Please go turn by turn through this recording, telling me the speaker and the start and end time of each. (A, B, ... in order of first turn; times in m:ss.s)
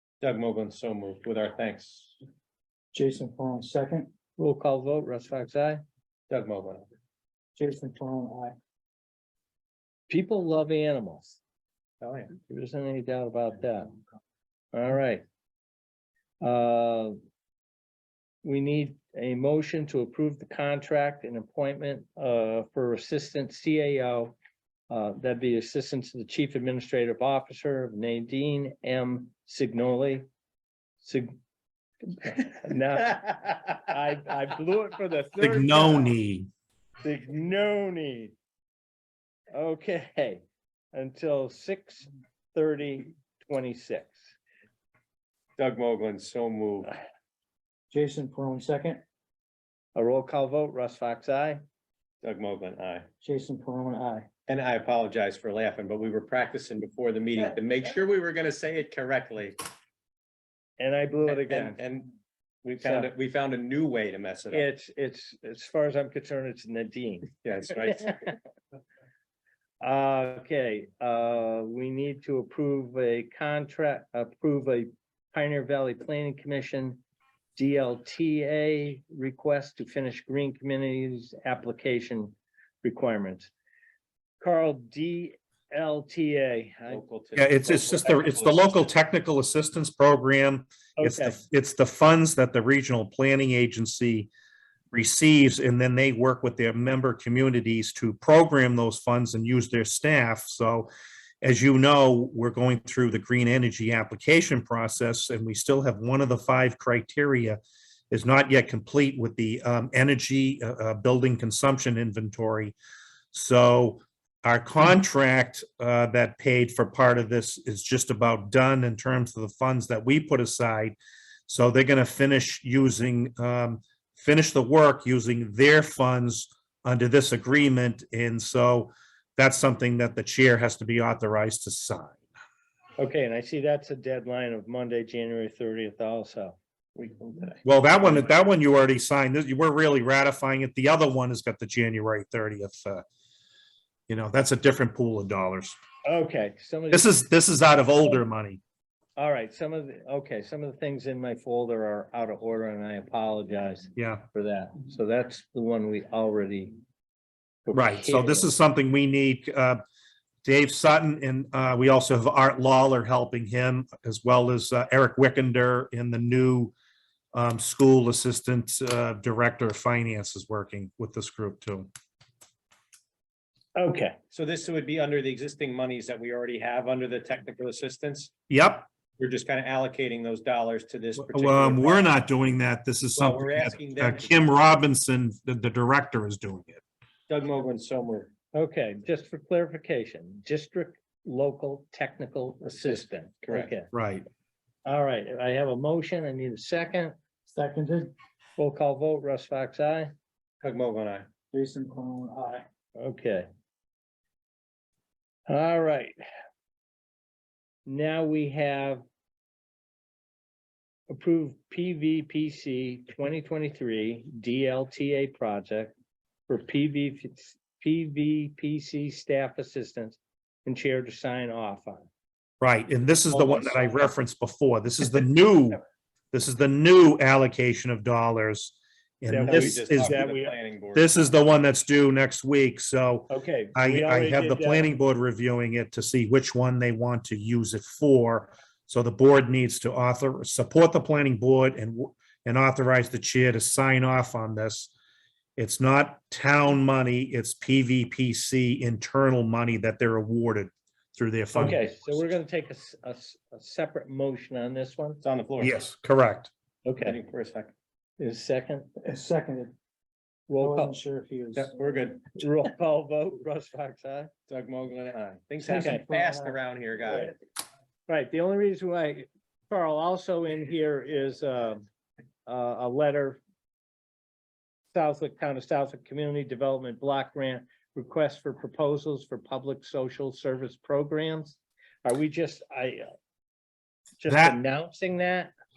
0:00.2-0:02.2 A
0:02.9-0:04.1 B
0:04.4-0:05.8 C
0:06.3-0:06.8 A
0:07.6-0:08.5 B
0:10.1-0:11.4 C
0:12.0-0:12.3 A
0:12.4-0:14.0 C
0:14.7-0:15.2 C
0:16.4-0:17.2 C
0:18.4-0:24.3 C
0:24.9-0:30.2 C
0:31.0-0:31.3 C
0:32.1-0:36.1 C
0:35.4-0:36.5 D
0:37.0-0:38.3 C
0:39.5-0:44.3 C
0:45.6-0:46.9 A
0:47.9-0:49.0 B
0:49.9-0:51.6 C
0:52.2-0:53.0 A
0:53.2-0:54.3 B
0:54.5-0:59.6 A
1:00.8-1:01.8 C
1:01.3-1:02.1 A
1:02.6-1:04.7 A
1:02.8-1:03.1 C
1:04.5-1:07.3 C
1:07.4-1:08.2 A
1:09.8-1:17.0 C
1:17.6-1:23.5 C
1:24.4-1:27.0 C
1:26.9-1:28.9 A
1:27.4-1:34.3 D
1:31.0-1:31.4 C
1:34.9-1:40.9 D
1:41.4-1:47.6 D
1:48.1-1:52.7 D
1:53.3-2:12.2 D
2:13.0-2:16.6 C
2:17.0-2:18.3 A
2:17.6-2:23.0 D
2:24.1-2:25.7 D
2:26.0-2:27.1 C
2:26.9-2:28.6 D
2:29.2-2:36.7 C
2:34.0-2:34.2 D
2:37.6-2:38.5 C
2:37.7-2:39.8 D
2:40.4-2:46.7 D
2:47.3-2:51.9 D
2:53.8-2:54.2 C
2:54.3-2:58.3 A
2:58.5-2:58.8 D
2:59.2-3:02.1 A
3:01.2-3:06.8 D
3:03.2-3:04.3 A
3:07.3-3:08.3 A
3:08.5-3:13.9 C
3:13.4-3:13.7 A
3:13.9-3:14.2 D
3:14.8-3:17.1 C
3:17.5-3:18.1 B
3:18.6-3:20.1 C
3:20.6-3:21.2 A
3:21.5-3:22.6 B
3:23.0-3:23.5 C
3:25.5-3:26.2 C
3:27.8-3:29.0 C
3:31.1-3:35.9 C
3:36.5-3:42.1 C
3:42.6-3:50.2 D
3:43.3-3:44.0 C
3:49.3-3:50.5 C
3:49.4-3:51.1 A
3:50.9-4:04.9 D
3:53.3-3:54.9 C
4:05.6-4:11.9 D
4:11.5-4:15.2 C
4:15.2-4:15.8 A
4:15.6-4:16.5 D
4:16.8-4:17.2 C
4:17.0-4:17.7 A
4:18.2-4:18.9 C
4:19.0-4:19.7 B
4:20.5-4:21.0 C
4:20.6-4:21.7 B
4:21.6-4:22.3 A
4:22.3-4:24.3 C
4:24.5-4:27.3 A
4:25.6-4:26.6 B
4:25.8-4:26.0 C
4:28.1-4:31.8 C
4:32.4-4:33.4 C
4:34.9-4:43.1 C
4:44.2-4:45.5 C
4:44.2-4:44.6 D